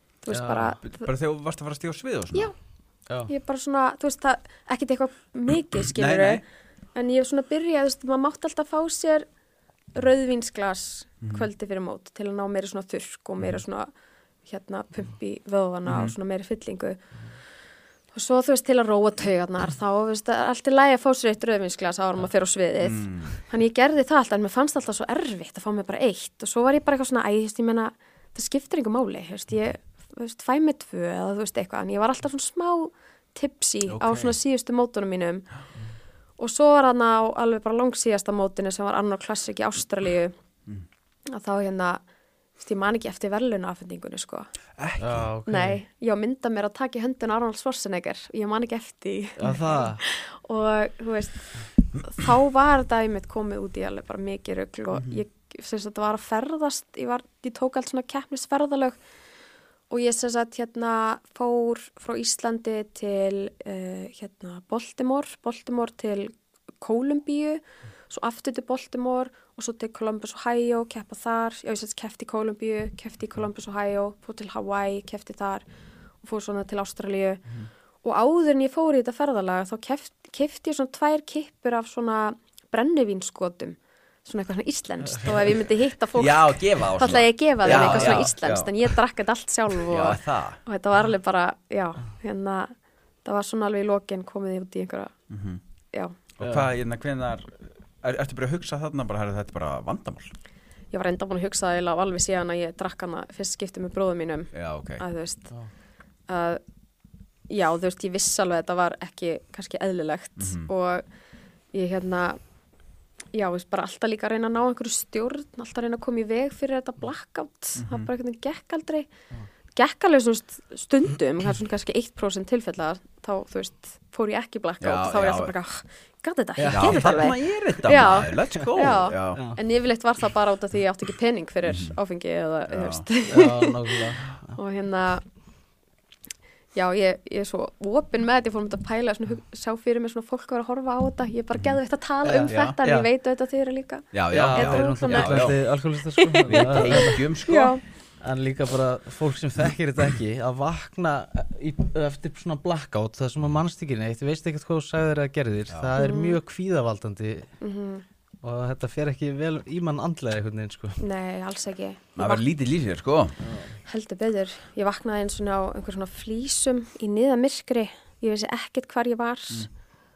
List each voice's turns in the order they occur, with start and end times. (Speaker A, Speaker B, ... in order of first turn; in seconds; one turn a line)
Speaker A: 0.2-1.1
Speaker B: 0.3-0.7
Speaker C: 0.8-2.5
Speaker A: 3.3-6.4
Speaker C: 5.9-6.4
Speaker A: 6.9-9.2
Speaker A: 9.9-13.9
Speaker C: 11.2-11.5
Speaker A: 14.4-17.0
Speaker C: 15.9-16.1
Speaker A: 18.1-35.5
Speaker C: 22.8-23.4
Speaker C: 33.9-34.3
Speaker A: 36.4-40.3
Speaker A: 41.3-42.0
Speaker A: 42.6-44.5
Speaker C: 44.8-45.3
Speaker B: 45.0-45.8
Speaker A: 45.5-59.0
Speaker B: 49.4-50.0
Speaker C: 54.9-55.2
Speaker A: 59.9-75.6
Speaker A: 76.2-77.4
Speaker A: 78.0-95.1
Speaker C: 86.1-88.7
Speaker B: 87.7-88.3
Speaker C: 89.9-90.6
Speaker C: 95.3-95.6
Speaker C: 96.4-100.3
Speaker A: 100.9-105.5
Speaker C: 104.5-105.0
Speaker A: 106.3-106.6
Speaker A: 107.5-111.0
Speaker C: 110.4-110.7
Speaker A: 111.7-112.4
Speaker A: 113.3-119.1
Speaker C: 117.8-118.1
Speaker A: 119.7-135.2
Speaker C: 124.8-125.5
Speaker B: 126.6-127.2
Speaker C: 126.7-129.4
Speaker C: 131.6-132.0
Speaker C: 132.7-133.1
Speaker B: 133.3-134.6
Speaker A: 136.7-145.5
Speaker B: 142.2-143.1
Speaker C: 142.5-142.8
Speaker C: 144.1-145.6
Speaker B: 144.3-147.2
Speaker A: 146.2-147.8
Speaker C: 146.4-147.8
Speaker B: 148.2-157.5
Speaker C: 155.7-155.9
Speaker A: 156.0-156.4
Speaker A: 157.6-158.0
Speaker B: 158.4-161.0
Speaker A: 161.0-162.4
Speaker C: 162.2-163.3
Speaker B: 163.4-163.8
Speaker A: 163.8-169.7